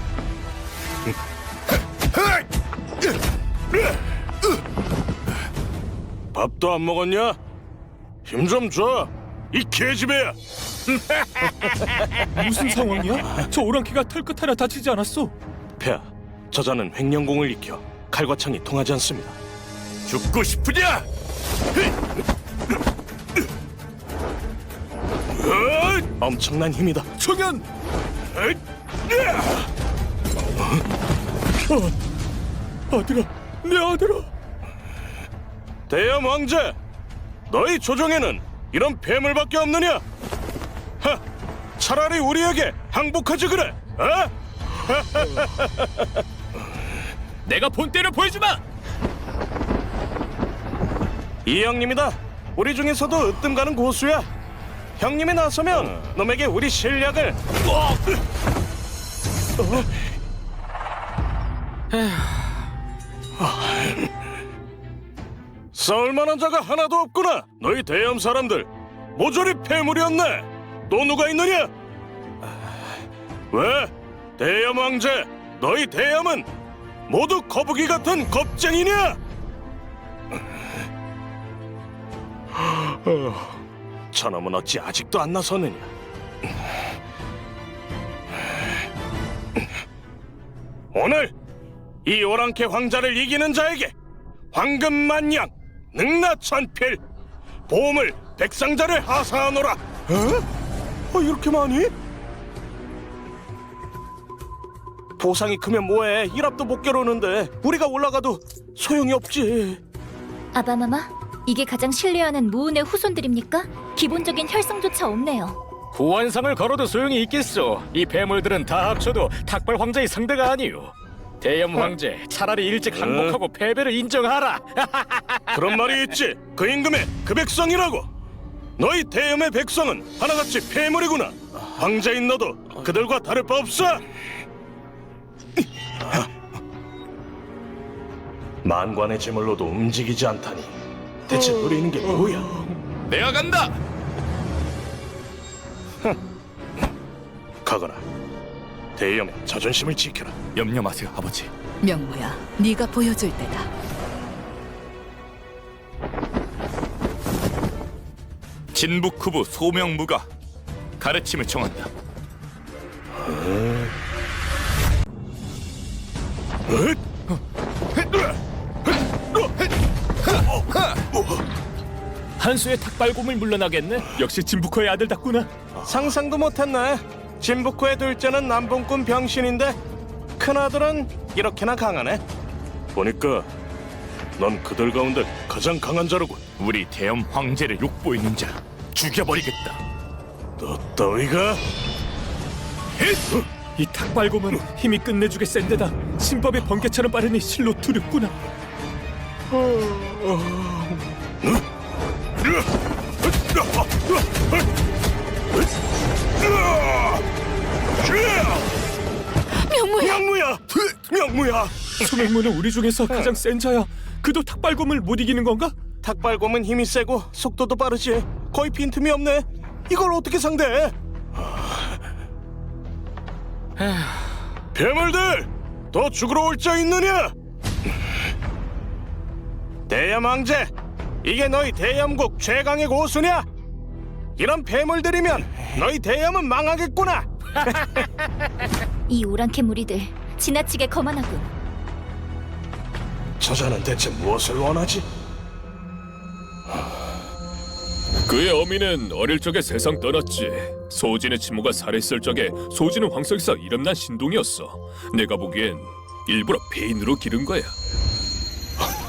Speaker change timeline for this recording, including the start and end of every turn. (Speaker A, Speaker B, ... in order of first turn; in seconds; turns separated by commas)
Speaker A: 6.3-7.4, Speaker A: 8.2-10.3, Speaker B: 12.2-15.3, Speaker A: 15.8-19.4, Speaker C: 20.1-21.1, Speaker A: 25.3-27.1, Speaker B: 27.2-27.6, Speaker A: 28.3-29.6, Speaker B: 32.9-34.3, Speaker A: 35.9-36.8, Speaker A: 37.5-40.0, Speaker A: 41.8-46.2, Speaker B: 47.5-48.6, Speaker A: 51.5-54.3, Speaker A: 55.0-58.1, Speaker A: 59.6-59.9, Speaker D: 61.9-62.3, Speaker A: 63.4-64.1, Speaker A: 65.7-71.7, Speaker A: 73.5-76.5, Speaker A: 77.1-79.2, Speaker A: 82.7-83.5, Speaker A: 84.1-85.9, Speaker A: 90.9-91.3, Speaker A: 92.0-93.9, Speaker A: 94.5-97.0, Speaker A: 97.7-100.4, Speaker A: 101.1-101.9, Speaker A: 105.2-109.8, Speaker E: 110.5-115.6, Speaker D: 115.9-125.7, Speaker A: 122.9-123.4, Speaker A: 125.5-128.1, Speaker A: 128.8-134.0, Speaker A: 136.0-136.3, Speaker A: 138.6-140.7, Speaker A: 141.2-142.6, Speaker C: 143.1-143.8, Speaker A: 147.6-148.0, Speaker A: 148.9-150.4, Speaker C: 150.5-151.5, Speaker F: 151.8-153.7, Speaker C: 158.7-160.3, Speaker C: 161.0-161.9, Speaker A: 163.1-163.9, Speaker A: 166.7-167.0, Speaker C: 170.7-171.0, Speaker A: 171.1-171.4, Speaker B: 172.4-175.5, Speaker A: 175.8-179.8, Speaker A: 180.4-182.2, Speaker A: 182.9-183.5, Speaker A: 184.4-186.4, Speaker C: 186.6-189.8, Speaker A: 190.6-191.6, Speaker A: 193.1-193.4, Speaker B: 193.8-198.3, Speaker A: 199.9-200.6, Speaker A: 202.4-202.7, Speaker A: 203.2-204.6, Speaker A: 206.4-207.2, Speaker A: 208.0-208.7, Speaker F: 209.5-210.2, Speaker A: 210.0-211.9, Speaker B: 212.0-215.8, Speaker A: 216.0-222.0, Speaker D: 223.8-224.2, Speaker A: 224.7-227.3, Speaker A: 229.9-230.7, Speaker A: 231.2-233.4, Speaker A: 234.4-238.0, Speaker E: 239.1-241.5, Speaker A: 243.4-245.1, Speaker B: 248.2-257.7